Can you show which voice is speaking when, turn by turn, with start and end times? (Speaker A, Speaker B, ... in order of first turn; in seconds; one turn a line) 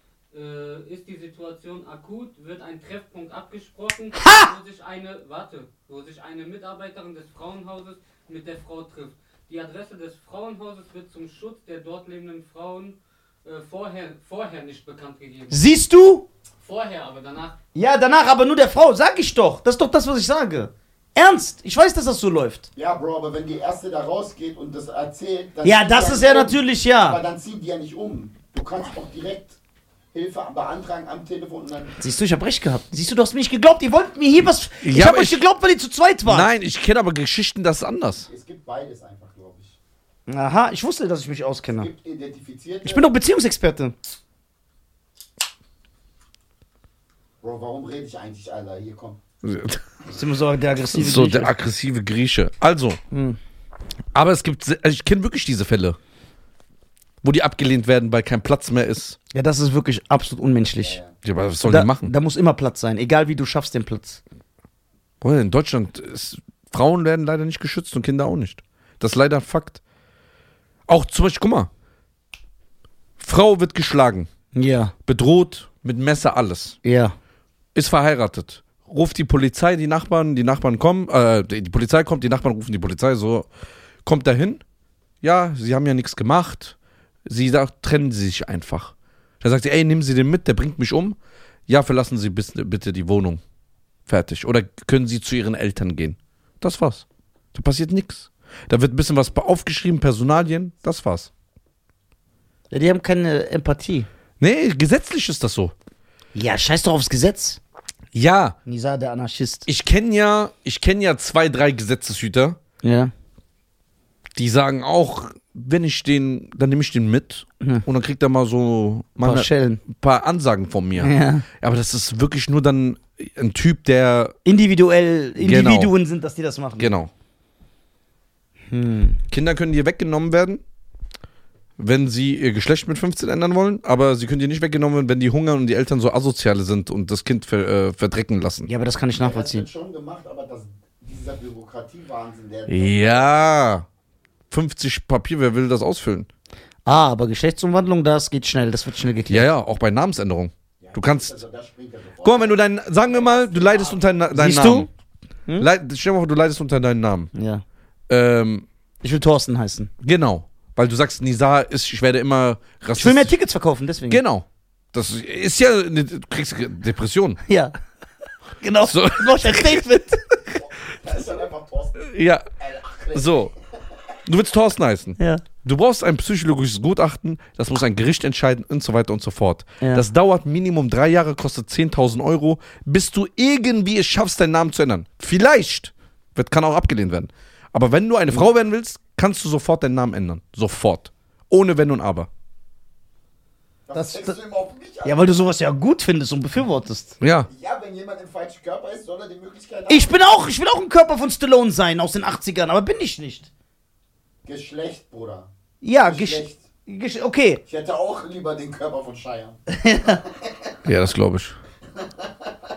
Speaker A: 0.3-15.6
Speaker B: 15.5-16.2
Speaker A: 16.6-17.6
Speaker B: 17.8-22.7
Speaker C: 22.8-29.6
Speaker B: 25.6-27.2
Speaker C: 30.1-32.0
Speaker B: 32.0-36.5
Speaker D: 34.8-35.4
Speaker D: 36.2-38.3
Speaker C: 38.2-39.8
Speaker B: 40.3-41.9
Speaker C: 41.7-43.1
Speaker B: 42.9-43.9
Speaker C: 47.4-49.2
Speaker D: 49.4-49.8
Speaker B: 50.1-51.5
Speaker D: 50.9-53.0
Speaker B: 53.1-53.4
Speaker D: 54.1-56.0
Speaker D: 57.2-59.2
Speaker B: 59.3-61.0
Speaker C: 60.8-61.1
Speaker D: 61.2-62.1
Speaker B: 61.6-64.2
Speaker D: 65.2-69.8
Speaker D: 70.9-71.7
Speaker D: 73.2-74.3
Speaker B: 74.5-74.9
Speaker D: 75.1-76.8
Speaker B: 76.8-77.2
Speaker D: 77.8-83.5
Speaker D: 84.0-84.6
Speaker D: 85.2-91.2
Speaker D: 91.7-93.4
Speaker D: 94.1-101.3
Speaker B: 102.7-104.1
Speaker D: 104.4-105.7
Speaker B: 106.3-107.6
Speaker D: 108.1-108.6
Speaker B: 108.7-109.7
Speaker D: 109.7-112.6
Speaker B: 112.8-113.1
Speaker D: 114.4-124.3
Speaker B: 119.2-119.8
Speaker B: 121.0-121.4
Speaker B: 124.4-126.9
Speaker D: 125.4-125.9
Speaker D: 126.8-127.1
Speaker B: 128.7-129.2
Speaker D: 129.3-130.6
Speaker D: 131.8-138.7
Speaker B: 138.7-139.7
Speaker C: 139.2-143.2
Speaker D: 142.7-143.9
Speaker D: 144.5-146.3
Speaker B: 146.8-149.5
Speaker D: 149.3-151.4
Speaker C: 150.8-154.2
Speaker D: 152.2-154.9
Speaker B: 154.3-154.9
Speaker D: 155.6-157.3
Speaker B: 157.3-157.6
Speaker D: 158.1-158.7
Speaker B: 159.0-159.9
Speaker D: 160.0-163.3
Speaker B: 162.9-164.2
Speaker D: 164.1-167.4
Speaker B: 167.4-167.7
Speaker B: 168.6-170.2
Speaker D: 168.8-169.9
Speaker C: 170.5-173.6
Speaker D: 172.0-172.4
Speaker D: 173.1-173.5
Speaker D: 174.3-192.3
Speaker B: 175.2-175.4
Speaker C: 193.9-195.3
Speaker B: 193.9-194.4
Speaker B: 195.0-197.2
Speaker D: 197.2-197.5
Speaker C: 197.5-200.2
Speaker B: 199.9-203.5
Speaker C: 204.4-205.5
Speaker B: 205.8-207.6
Speaker C: 206.1-206.6
Speaker C: 207.7-209.6
Speaker B: 209.7-210.2
Speaker C: 210.2-210.8
Speaker D: 210.8-211.6